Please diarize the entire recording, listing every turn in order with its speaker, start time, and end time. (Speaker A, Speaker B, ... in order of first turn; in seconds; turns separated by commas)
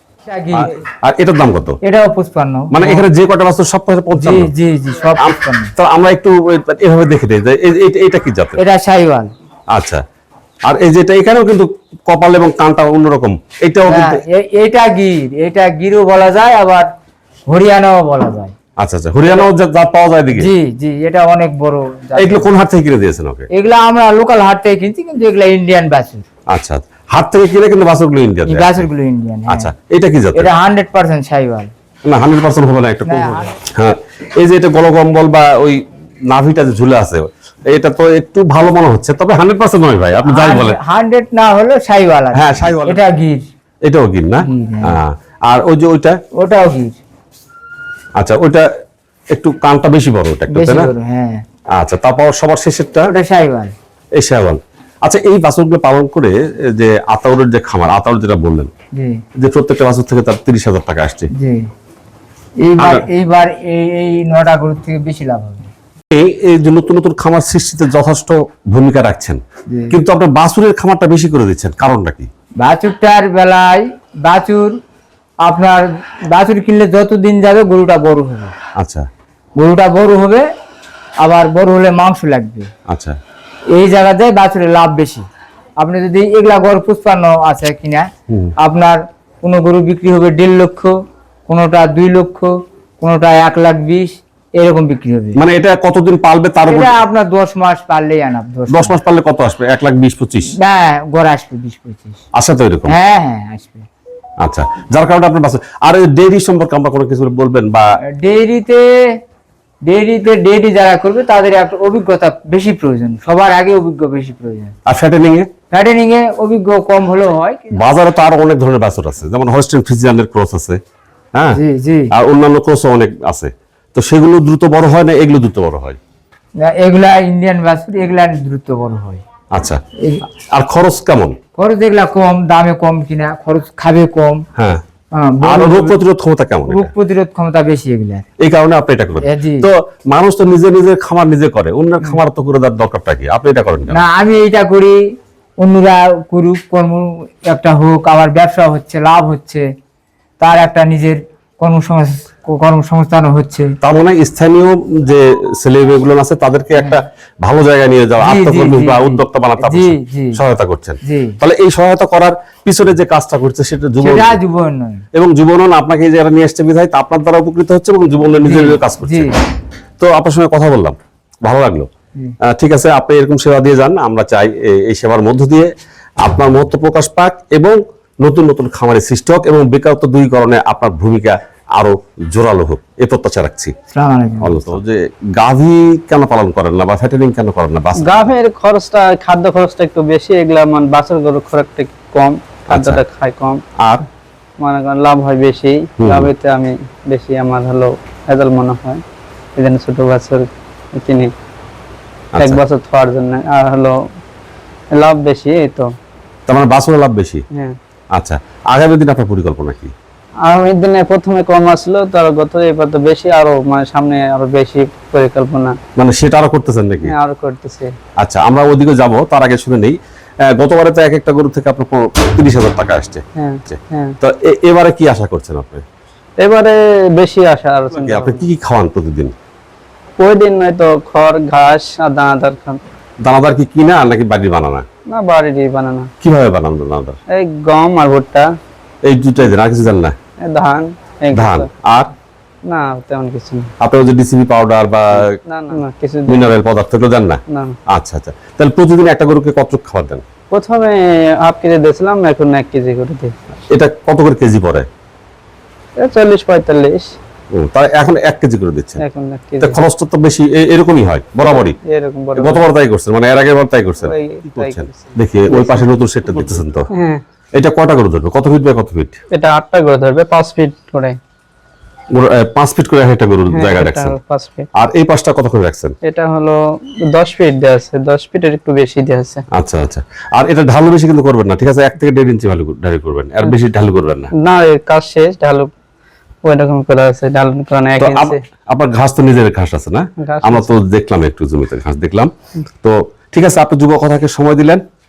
Speaker A: 0.3-0.7, Speaker B: 0.5-1.8, Speaker A: 1.8-3.0, Speaker B: 2.7-4.5, Speaker A: 4.2-5.7, Speaker B: 5.2-8.6, Speaker A: 8.6-9.3, Speaker B: 9.7-10.0, Speaker B: 10.6-14.2, Speaker A: 13.8-16.9, Speaker A: 17.5-18.5, Speaker B: 18.8-20.5, Speaker A: 19.2-19.5, Speaker A: 20.3-22.5, Speaker B: 22.1-23.5, Speaker A: 23.5-26.2, Speaker B: 26.5-28.9, Speaker A: 28.5-29.7, Speaker B: 29.5-30.5, Speaker A: 30.3-31.7, Speaker B: 32.0-40.8, Speaker A: 33.0-33.5, Speaker A: 40.2-43.4, Speaker B: 42.3-43.0, Speaker B: 43.8-46.2, Speaker A: 44.4-45.0, Speaker A: 46.4-47.0, Speaker B: 48.2-48.6, Speaker B: 49.3-50.9, Speaker A: 50.5-51.4, Speaker B: 51.8-53.1, Speaker A: 53.1-53.7, Speaker B: 54.1-58.7, Speaker A: 59.0-59.2, Speaker B: 59.4-61.3, Speaker A: 61.4-61.7, Speaker A: 62.6-65.7, Speaker B: 62.8-63.0, Speaker B: 66.1-72.3, Speaker A: 69.7-70.0, Speaker A: 72.6-74.7, Speaker A: 75.4-78.5, Speaker B: 78.8-79.1, Speaker A: 79.6-80.4, Speaker A: 81.2-82.7, Speaker B: 82.9-83.2, Speaker A: 83.7-85.2, Speaker A: 85.8-88.1, Speaker A: 88.6-90.9, Speaker A: 91.5-92.5, Speaker A: 93.0-95.4, Speaker B: 95.3-96.9, Speaker A: 96.7-99.0, Speaker B: 98.7-100.5, Speaker A: 100.6-102.2, Speaker B: 102.3-103.0, Speaker A: 102.9-103.9, Speaker B: 104.4-107.8, Speaker A: 108.2-108.9, Speaker A: 109.9-114.7, Speaker B: 114.8-115.5, Speaker A: 115.7-117.8, Speaker B: 117.7-120.8, Speaker B: 121.3-121.6, Speaker A: 121.5-122.1, Speaker B: 122.1-126.0, Speaker A: 126.7-129.2, Speaker B: 129.5-129.8, Speaker B: 130.5-131.3, Speaker A: 131.6-134.4, Speaker A: 135.2-136.0, Speaker B: 135.4-136.9, Speaker A: 136.7-138.2, Speaker B: 138.4-144.0, Speaker A: 139.2-139.7, Speaker A: 143.9-145.0, Speaker A: 145.6-149.6, Speaker A: 150.4-153.8, Speaker B: 153.8-164.4, Speaker A: 156.7-157.0, Speaker A: 158.2-160.4, Speaker A: 161.1-161.4, Speaker A: 164.0-165.0, Speaker B: 165.1-169.4, Speaker A: 168.4-169.3, Speaker B: 170.0-171.9, Speaker B: 172.5-175.7, Speaker B: 176.2-183.7, Speaker A: 183.9-184.7, Speaker B: 184.4-188.3, Speaker C: 188.0-193.6, Speaker B: 192.7-193.0, Speaker C: 194.6-199.0, Speaker B: 196.0-196.3, Speaker C: 199.6-201.3, Speaker B: 202.3-202.6, Speaker C: 202.4-203.9, Speaker C: 204.9-205.9, Speaker B: 206.5-207.4, Speaker B: 208.1-209.9, Speaker C: 210.4-215.8, Speaker B: 215.9-217.1, Speaker C: 217.0-217.9, Speaker B: 218.2-220.0, Speaker B: 220.5-225.8, Speaker C: 223.3-224.2, Speaker C: 226.4-228.5, Speaker B: 227.9-229.3, Speaker C: 230.2-232.8, Speaker B: 233.2-234.8, Speaker C: 235.1-236.1, Speaker B: 236.2-237.2, Speaker C: 237.3-238.5, Speaker B: 239.0-240.2, Speaker C: 240.4-241.7, Speaker B: 241.3-242.1, Speaker C: 242.7-243.7, Speaker B: 243.8-245.3, Speaker C: 245.1-246.5, Speaker B: 246.3-250.2, Speaker C: 247.5-247.8, Speaker C: 250.5-253.3, Speaker B: 253.7-254.9, Speaker C: 256.0-257.1, Speaker B: 257.5-259.0, Speaker C: 259.0-259.8, Speaker B: 259.6-261.8, Speaker C: 261.9-262.7, Speaker B: 262.4-266.9, Speaker C: 264.0-265.8, Speaker C: 266.9-267.2, Speaker B: 267.6-269.2, Speaker C: 269.3-271.2, Speaker B: 272.1-274.2, Speaker C: 273.5-274.7, Speaker B: 274.8-275.9, Speaker C: 276.0-279.4, Speaker B: 279.5-284.3, Speaker C: 284.4-285.7, Speaker C: 286.4-288.4, Speaker B: 288.0-292.3, Speaker C: 290.2-290.7, Speaker B: 292.8-294.8